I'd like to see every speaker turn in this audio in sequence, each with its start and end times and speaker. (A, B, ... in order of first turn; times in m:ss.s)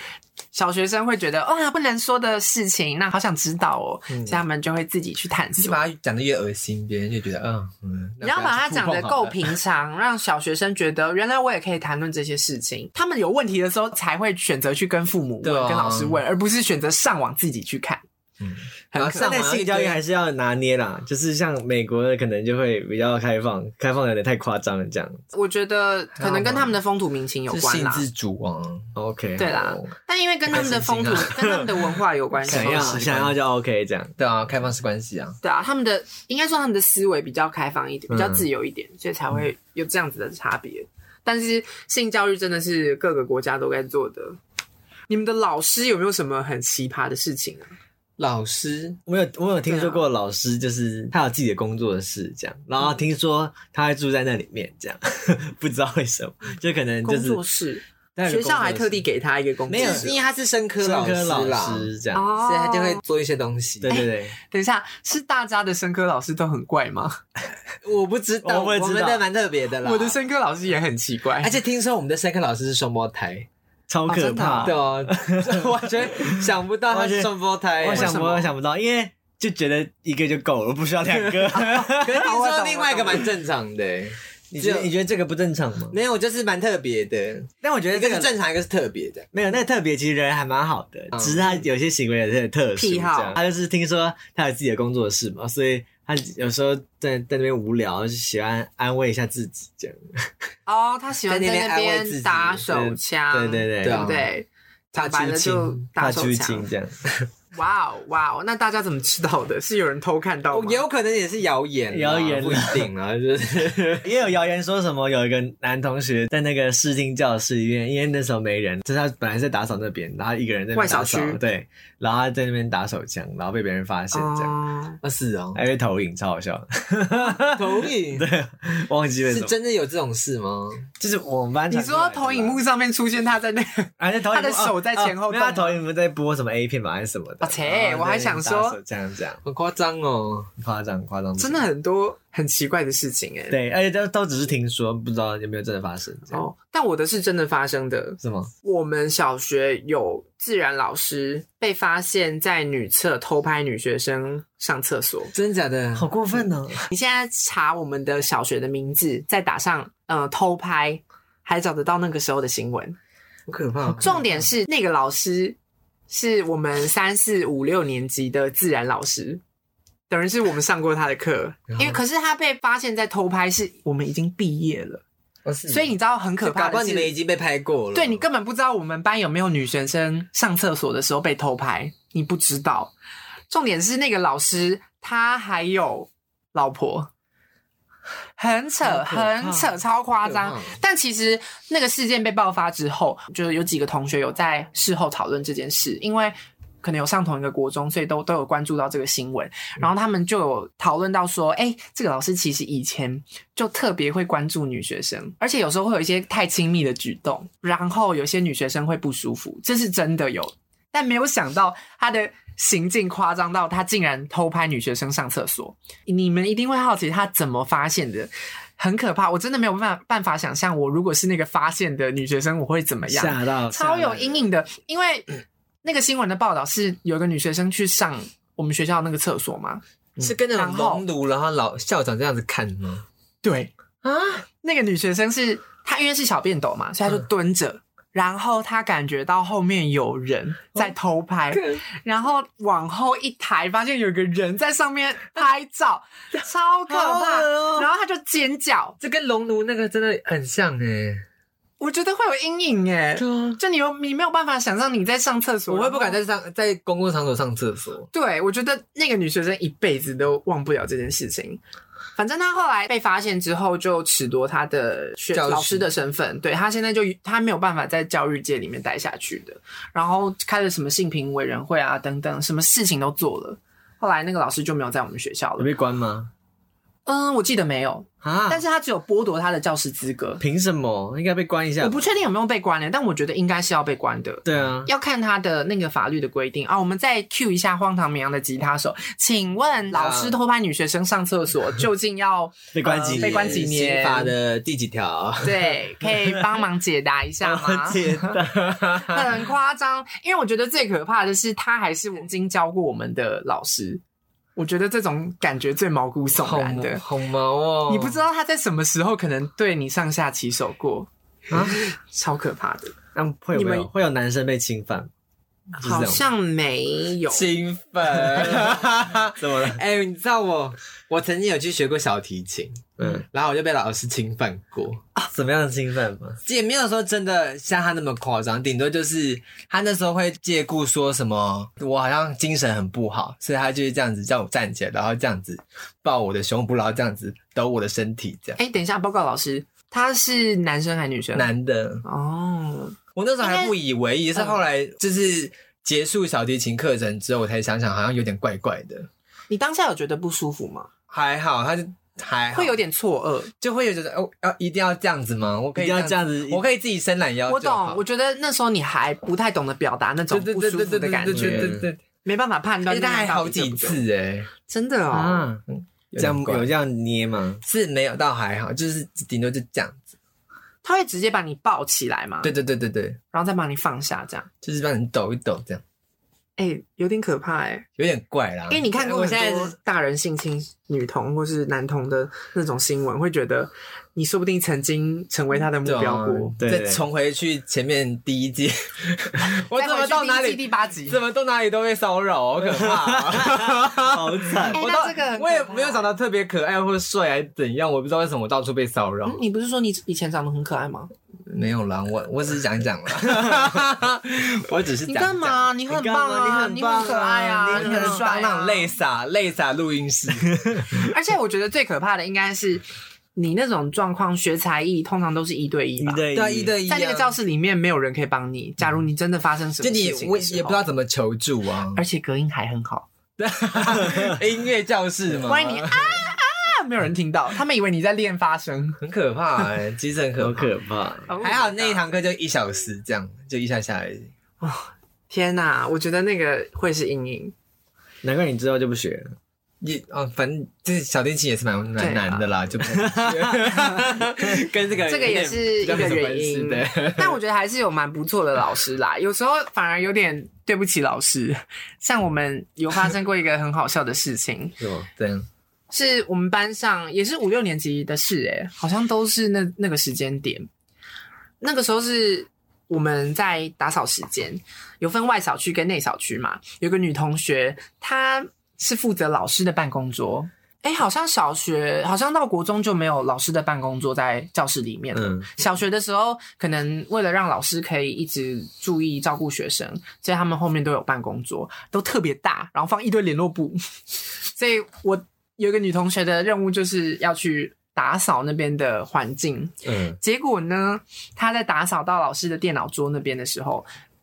0:00.5-0:05.8 A
0:05.6-0:09.5 B
0:08.2-0:18.0 A
0:15.4-0:16.2 B
0:18.4-0:20.0 B
0:18.9-0:19.4 A
0:19.2-0:25.2 C
0:25.3-0:28.1 A
0:26.2-0:26.8 B
0:27.5-0:29.8 B
0:29.0-0:29.7 C
0:29.4-0:33.1 A
0:30.5-0:31.4 B
0:31.1-0:31.7 C
0:32.5-0:33.4 B
0:32.5-0:34.2 C
0:34.2-0:35.4 B
0:35.4-0:44.4 A
0:38.1-0:38.4 C
0:45.1-0:47.7 A
0:48.2-0:49.0 B
0:49.1-0:57.4 C
0:49.7-0:50.0 A
0:57.0-1:00.2 A
0:58.2-0:59.0 C
0:59.7-1:00.2 C
0:59.7-1:04.0 B
1:00.8-1:02.3 C
1:02.1-1:03.0 A
1:03.8-1:04.4 C
1:03.9-1:07.2 A
1:07.8-1:10.2 B
1:08.4-1:09.2 C
1:09.8-1:11.6 A
1:11.4-1:13.5 B
1:13.9-1:22.2 C
1:14.1-1:14.8 A
1:14.6-1:18.2 B
1:17.9-1:18.5 A
1:21.1-1:24.9 B
1:21.6-1:23.3 A
1:24.5-1:26.0 C
1:25.9-1:29.3 B
1:27.6-1:28.3 C
1:29.3-1:40.3 C
1:31.1-1:31.5 B
1:32.8-1:33.4 A
1:40.7-1:46.7 A
1:41.3-1:42.7 B
1:42.7-1:44.2 C
1:43.8-1:44.3 B
1:45.0-1:45.7 B
1:45.9-1:47.1 C
1:47.5-1:50.8 A
1:50.5-1:54.1 B
1:51.9-1:52.9 C
1:54.0-2:04.6 C
2:00.7-2:01.4 A
2:04.1-2:05.0 A
2:05.0-2:05.6 B
2:05.5-2:09.5 C
2:07.2-2:08.3 B
2:09.3-2:10.9 B
2:11.0-2:12.6 C
2:11.7-2:15.8 A
2:14.0-2:19.4 C
2:17.4-2:18.8 A
2:19.4-2:20.5 B
2:20.6-2:21.6 C
2:21.4-2:23.6 A
2:23.5-2:26.4 C
2:26.3-2:35.3 A
2:28.2-2:28.5 C
2:35.3-2:36.1 B
2:36.0-2:36.9 C
2:36.9-2:43.0 A
2:43.5-2:44.2 B
2:44.0-2:45.6 A
2:46.1-2:49.4 A
2:50.1-2:55.0 A
2:51.7-2:52.0 B
2:55.4-2:58.2 B
2:55.7-2:57.1 A
2:57.9-3:02.9 A
3:03.5-3:07.1 A
3:08.4-3:45.3 A
3:10.2-3:10.8 B
3:43.1-3:44.4 C
3:45.8-3:51.0 A
3:50.2-3:53.1 B
3:53.4-3:53.7 A
3:54.0-3:54.4 B
3:54.6-4:09.0 A
4:01.5-4:01.8 B
4:06.9-4:07.9 B
4:09.0-4:11.2 B
4:11.8-4:16.2 A
4:13.2-4:13.6 B
4:15.7-4:18.1 B
4:18.1-4:21.6 A
4:22.2-4:35.7 A
4:25.3-4:25.9 B
4:35.6-4:36.3 C
4:37.1-4:40.4 A
4:38.2-4:38.6 C
4:40.4-4:42.1 C
4:41.8-4:54.3 A
4:44.4-4:44.9 C
4:49.9-4:50.4 B
4:52.7-4:53.7 C
4:53.0-4:56.1 B
4:55.4-4:58.3 A
4:57.4-4:58.8 C
4:58.4-4:59.2 B
4:59.0-5:04.0 A
5:04.6-5:07.0 A
5:06.4-5:08.2 B
5:07.9-5:11.1 A
5:11.5-5:11.8 C
5:11.7-5:13.0 A
5:13.1-5:15.1 C
5:13.5-5:13.9 A
5:15.8-5:17.5 A
5:15.8-5:16.2 C
5:17.3-5:25.0 B
5:18.3-5:18.8 C
5:19.4-5:19.8 C
5:25.3-5:26.4 C
5:26.4-5:38.6 B
5:38.6-5:41.5 A
5:41.4-5:42.0 B
5:42.0-5:43.7 A
5:43.2-5:49.1 B
5:49.5-5:50.9 A
5:51.1-5:52.8 B
5:52.5-5:53.5 A
5:53.6-5:58.0 B
5:55.8-5:56.6 C
5:57.5-6:04.0 A
6:00.3-6:02.0 B
6:01.3-6:01.8 C
6:02.9-6:04.5 B
6:04.7-6:05.5 A
6:05.1-6:06.7 B
6:05.2-6:05.6 C
6:06.2-6:07.6 C
6:07.6-6:10.1 B
6:10.8-6:12.5 A
6:12.4-6:13.2 B
6:13.3-6:14.5 A
6:14.6-6:15.8 B
6:16.6-6:17.9 A
6:18.0-6:19.8 B
6:18.7-6:26.6 A
6:25.8-6:39.4 B
6:26.6-6:27.0 C
6:29.8-6:31.2 A
6:32.6-6:34.8 C
6:34.7-6:36.1 A
6:39.3-6:41.1 A
6:41.5-6:45.6 B
6:43.4-6:43.6 C
6:45.1-6:48.9 A
6:45.9-6:48.2 C
6:47.6-6:50.7 B
6:51.0-6:52.8 A
6:53.4-6:56.3 A
6:56.0-6:56.8 C
6:56.3-6:57.3 B
6:56.9-7:00.8 A
6:59.8-7:02.0 B
7:02.0-7:03.1 A
7:03.4-7:06.3 B
7:04.0-7:04.4 C
7:05.4-7:09.0 A
7:09.0-7:10.7 B
7:10.4-7:11.3 C
7:11.3-7:12.0 A
7:11.4-7:14.3 B
7:14.6-7:17.5 A
7:18.2-7:19.3 C
7:19.8-7:27.4 B
7:22.0-7:22.5 A
7:22.9-7:23.7 C
7:25.1-7:34.8 A
7:34.8-7:35.1 C
7:35.2-7:35.5 B
7:35.9-7:40.7 A
7:41.6-8:03.8 A
7:55.2-7:55.4 C
8:04.4-8:13.9 A
8:09.9-8:10.2 C